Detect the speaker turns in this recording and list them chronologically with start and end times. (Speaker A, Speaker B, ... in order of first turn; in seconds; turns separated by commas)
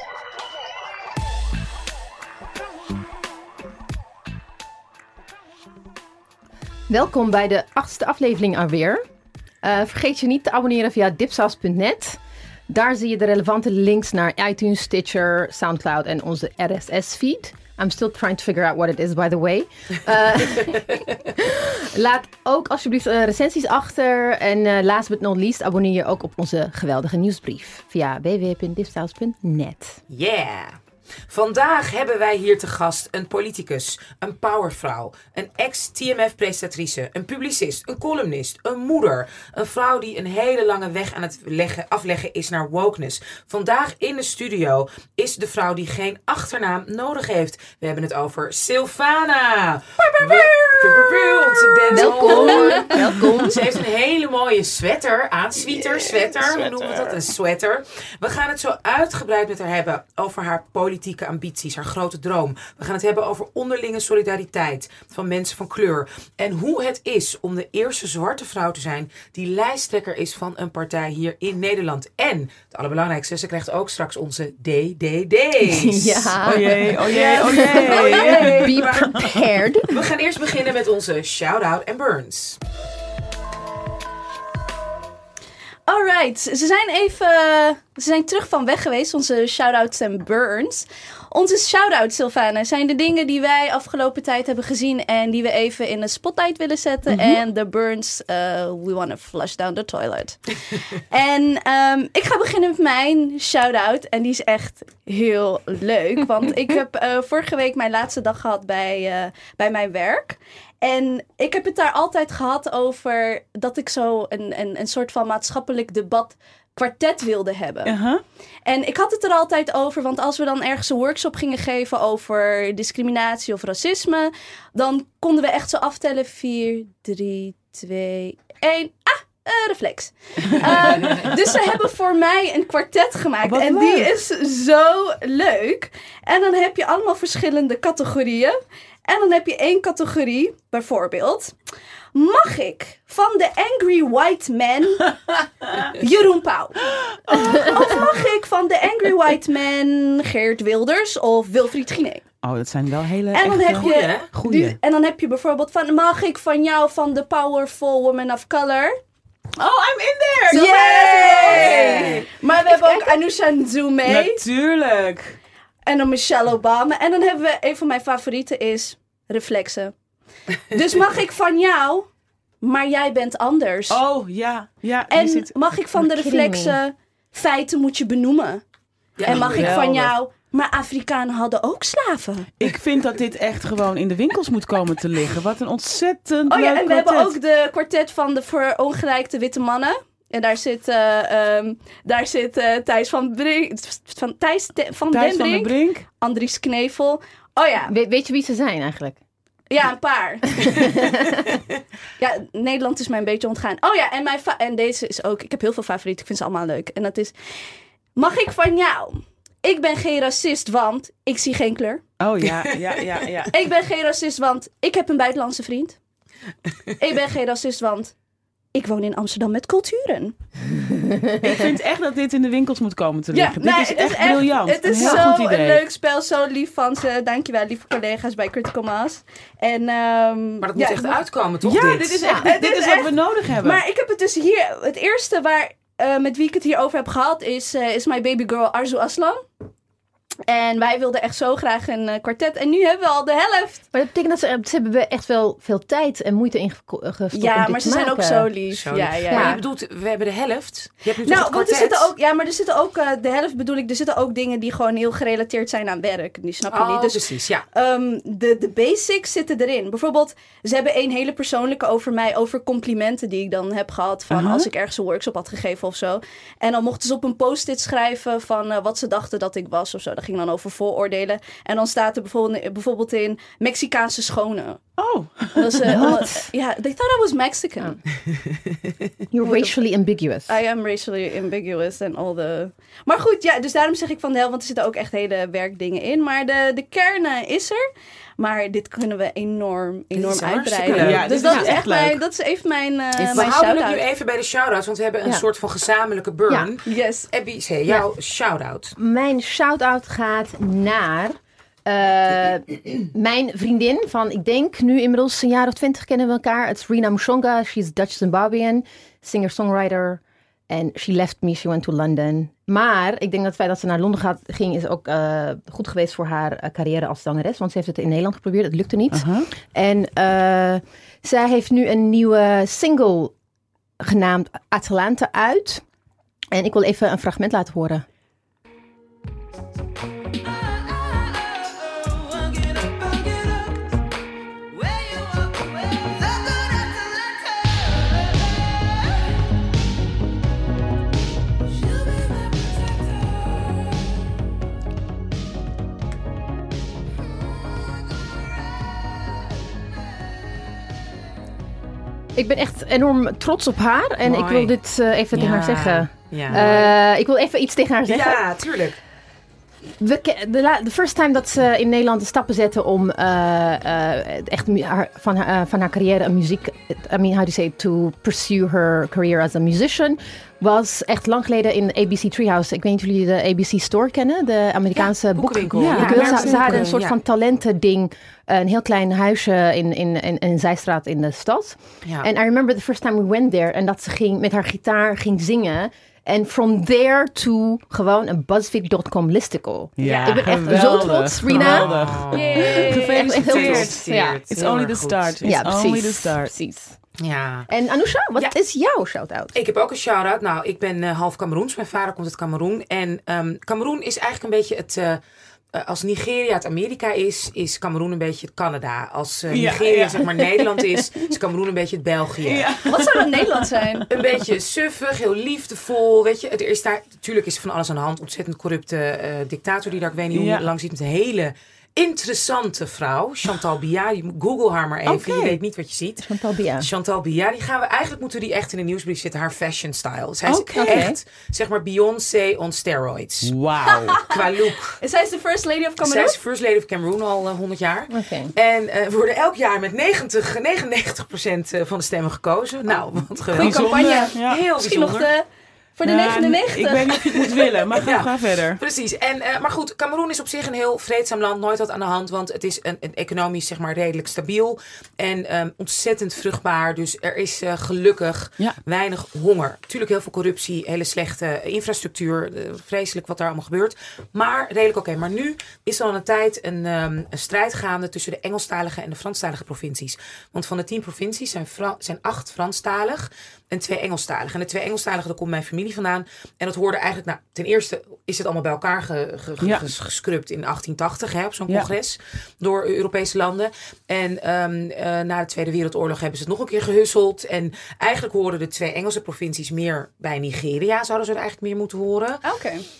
Speaker A: 6.9-9.0, Speaker A: 9.6-30.0, Speaker B: 30.1-82.6, Speaker C: 50.0-53.1, Speaker A: 51.9-53.7, Speaker D: 55.8-57.1, Speaker A: 75.6-80.0, Speaker D: 76.4-79.4, Speaker C: 77.1-78.8, Speaker C: 85.9-118.0, Speaker D: 97.1-97.4, Speaker D: 117.8-118.2, Speaker C: 118.7-138.6, Speaker D: 133.4-134.1, Speaker C: 139.1-141.5, Speaker C: 142.1-145.1, Speaker C: 145.9-152.2, Speaker D: 146.9-148.1, Speaker D: 152.4-154.8, Speaker C: 153.3-158.9, Speaker B: 153.8-154.3, Speaker D: 159.6-162.2, Speaker C: 160.5-164.4, Speaker B: 161.4-162.2, Speaker A: 162.7-163.1, Speaker D: 164.0-165.4, Speaker C: 165.8-169.9, Speaker C: 170.7-172.1, Speaker C: 172.6-174.0, Speaker D: 173.9-175.5, Speaker C: 175.1-178.6, Speaker A: 175.9-176.8, Speaker B: 179.2-179.8, Speaker C: 179.2-182.5, Speaker D: 179.2-180.1, Speaker D: 182.6-187.3, Speaker C: 186.5-197.9, Speaker D: 195.1-196.0, Speaker A: 197.9-199.2, Speaker C: 199.7-201.2, Speaker A: 200.6-201.6, Speaker C: 202.2-207.6, Speaker C: 208.2-212.0, Speaker D: 212.2-213.5, Speaker B: 212.4-212.9, Speaker C: 213.5-216.0, Speaker C: 217.0-218.1, Speaker C: 218.7-220.3, Speaker A: 220.7-221.6, Speaker D: 221.4-225.8, Speaker C: 223.3-231.2, Speaker A: 224.9-225.2, Speaker B: 230.6-232.2, Speaker D: 231.6-233.8, Speaker C: 232.2-239.4, Speaker C: 240.5-243.8, Speaker A: 243.9-248.5, Speaker C: 247.3-249.6, Speaker B: 248.7-252.1, Speaker A: 249.3-249.6, Speaker C: 251.2-274.8, Speaker B: 256.7-257.6, Speaker D: 264.3-264.7, Speaker D: 275.0-276.2, Speaker C: 275.5-278.0, Speaker A: 275.9-276.5, Speaker A: 279.3-280.5, Speaker C: 279.4-279.7, Speaker C: 280.5-287.8, Speaker C: 288.4-294.0, Speaker B: 290.1-291.7, Speaker D: 290.9-292.2, Speaker B: 293.3-298.9, Speaker C: 296.9-297.3, Speaker A: 299.0-323.3, Speaker D: 319.1-319.5, Speaker A: 324.0-325.8, Speaker A: 326.5-328.0, Speaker A: 352.4-358.4, Speaker B: 354.2-354.7, Speaker B: 355.3-356.9, Speaker B: 358.1-359.0, Speaker A: 360.0-394.4, Speaker B: 374.9-377.2, Speaker D: 375.7-377.0, Speaker D: 390.0-396.5, Speaker B: 390.0-395.5, Speaker C: 392.3-393.2, Speaker A: 395.4-397.0, Speaker B: 397.2-397.7, Speaker A: 397.7-399.5, Speaker B: 399.5-405.2, Speaker B: 405.7-412.7, Speaker D: 409.5-411.2, Speaker D: 412.4-414.0, Speaker C: 412.9-414.1, Speaker B: 414.1-433.5, Speaker D: 420.3-420.6, Speaker A: 425.1-425.5, Speaker A: 426.2-426.9, Speaker D: 430.5-431.1, Speaker A: 430.7-431.1, Speaker D: 433.4-434.2, Speaker C: 433.9-436.4, Speaker B: 434.2-435.0, Speaker B: 436.0-445.3, Speaker A: 438.1-438.5, Speaker C: 443.5-445.4, Speaker D: 443.6-444.6, Speaker C: 446.0-447.5, Speaker D: 446.0-448.8, Speaker B: 447.9-492.4, Speaker C: 492.4-492.8